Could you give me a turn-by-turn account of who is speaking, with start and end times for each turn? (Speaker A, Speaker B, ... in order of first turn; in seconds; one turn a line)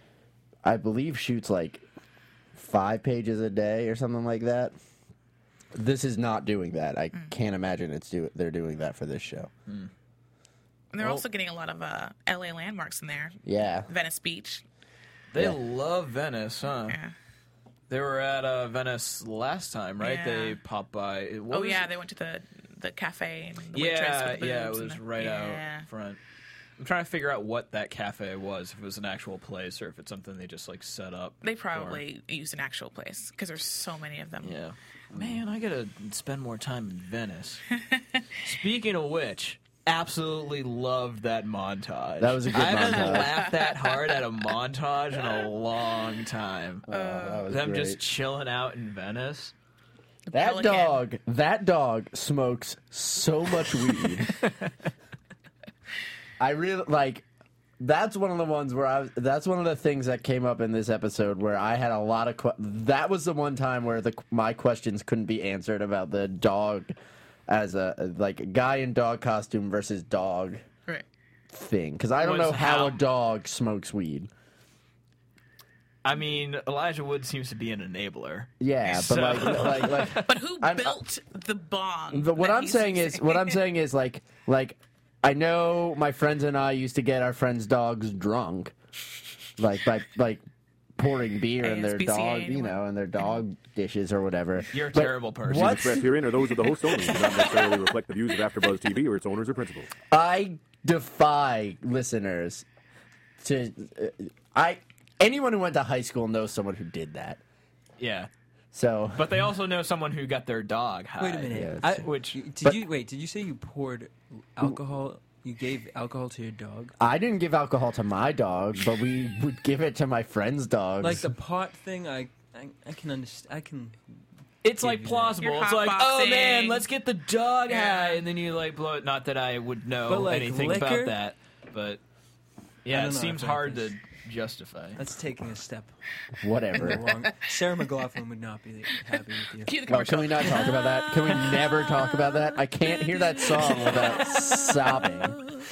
Speaker A: 0.6-1.8
Speaker A: 2.5-4.8
Speaker A: 5.7-9.5
Speaker B: 10.9-14.6
Speaker C: 11.0-11.2
Speaker A: 13.4-13.9
Speaker C: 15.3-17.0
Speaker B: 16.9-17.1
Speaker C: 17.9-21.9
Speaker B: 20.0-20.6
Speaker B: 21.5-25.9
Speaker C: 23.7-26.2
Speaker C: 26.8-32.0
Speaker B: 31.4-34.6
Speaker C: 34.4-37.6
Speaker A: 35.1-35.4
Speaker C: 38.4-46.9
Speaker A: 42.2-43.3
Speaker B: 43.0-43.9
Speaker A: 46.9-48.0
Speaker B: 46.9-47.5
Speaker C: 47.5-49.5
Speaker B: 50.3-51.0
Speaker A: 50.3-54.3
Speaker A: 56.4-57.3
Speaker A: 57.8-66.9
Speaker A: 67.5-70.6
Speaker A: 71.5-74.3
Speaker C: 72.2-73.0
Speaker C: 76.0-80.3
Speaker A: 78.6-81.0
Speaker B: 79.6-83.6
Speaker A: 82.1-88.7
Speaker A: 89.6-90.4
Speaker A: 91.0-96.1
Speaker B: 91.6-92.8
Speaker C: 94.7-95.9
Speaker D: 95.5-99.9
Speaker A: 100.1-102.7
Speaker A: 103.4-107.4
Speaker C: 108.0-108.3
Speaker A: 108.7-109.3
Speaker C: 109.2-112.4
Speaker E: 111.2-116.9
Speaker A: 111.5-112.0
Speaker A: 117.0-121.3
Speaker E: 121.0-124.0
Speaker C: 124.6-132.0
Speaker E: 124.8-125.4
Speaker B: 125.4-126.8
Speaker B: 127.7-128.2
Speaker E: 130.1-131.2
Speaker C: 132.8-135.0
Speaker E: 132.9-133.9
Speaker E: 135.0-135.9
Speaker A: 136.4-137.0
Speaker E: 136.8-139.8
Speaker B: 139.6-141.7
Speaker A: 139.9-145.4